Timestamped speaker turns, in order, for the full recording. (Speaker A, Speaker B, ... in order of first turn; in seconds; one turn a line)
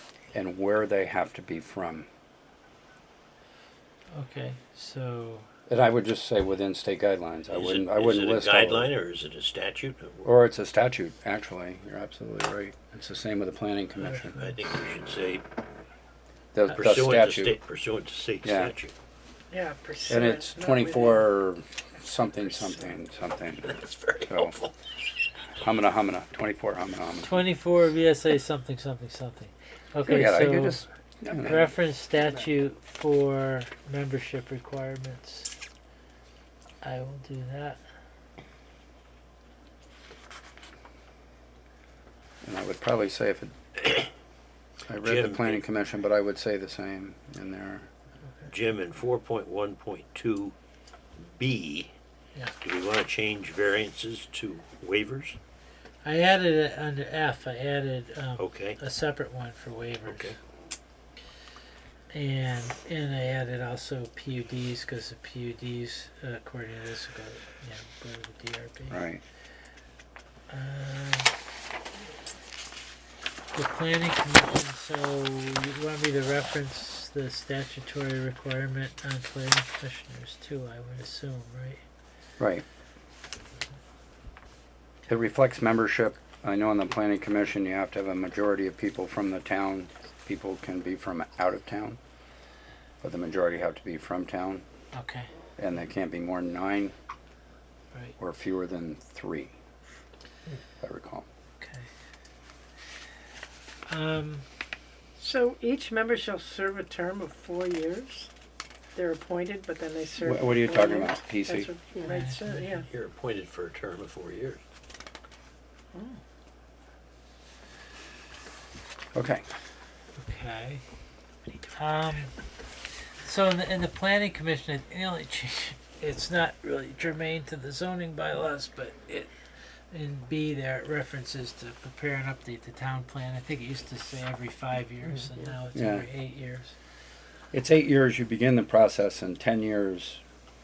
Speaker A: 0.3-2.0
Speaker B: 4.1-5.5
Speaker A: 5.7-8.9
Speaker C: 7.5-10.3
Speaker A: 10.2-14.5
Speaker B: 14.0-14.5
Speaker C: 14.3-15.4
Speaker A: 16.5-17.5
Speaker C: 16.7-18.9
Speaker A: 18.4-18.7
Speaker D: 19.5-21.3
Speaker A: 20.1-24.5
Speaker C: 23.7-24.7
Speaker A: 25.6-27.3
Speaker B: 27.2-35.5
Speaker A: 30.0-31.7
Speaker B: 36.8-37.8
Speaker A: 42.4-43.5
Speaker A: 44.9-47.9
Speaker C: 45.0-45.6
Speaker C: 48.5-50.5
Speaker C: 51.2-51.9
Speaker C: 52.6-55.4
Speaker B: 56.0-60.3
Speaker C: 58.4-58.8
Speaker C: 60.1-60.4
Speaker B: 62.1-69.0
Speaker A: 68.9-69.2
Speaker B: 70.5-71.3
Speaker B: 73.5-81.8
Speaker A: 85.1-92.0
Speaker A: 93.0-94.6
Speaker B: 94.9-95.3
Speaker A: 95.6-96.9
Speaker A: 98.2-99.5
Speaker A: 100.8-101.2
Speaker B: 101.6-101.9
Speaker B: 103.9-104.4
Speaker D: 105.2-108.3
Speaker D: 108.9-112.9
Speaker A: 110.2-111.7
Speaker B: 112.0-112.8
Speaker C: 112.9-114.6
Speaker A: 119.1-119.4
Speaker B: 120.2-120.8
Speaker B: 121.7-122.3
Speaker B: 123.2-129.3
Speaker B: 129.9-136.8
Speaker A: 135.7-136.1
Speaker A: 137.5-140.2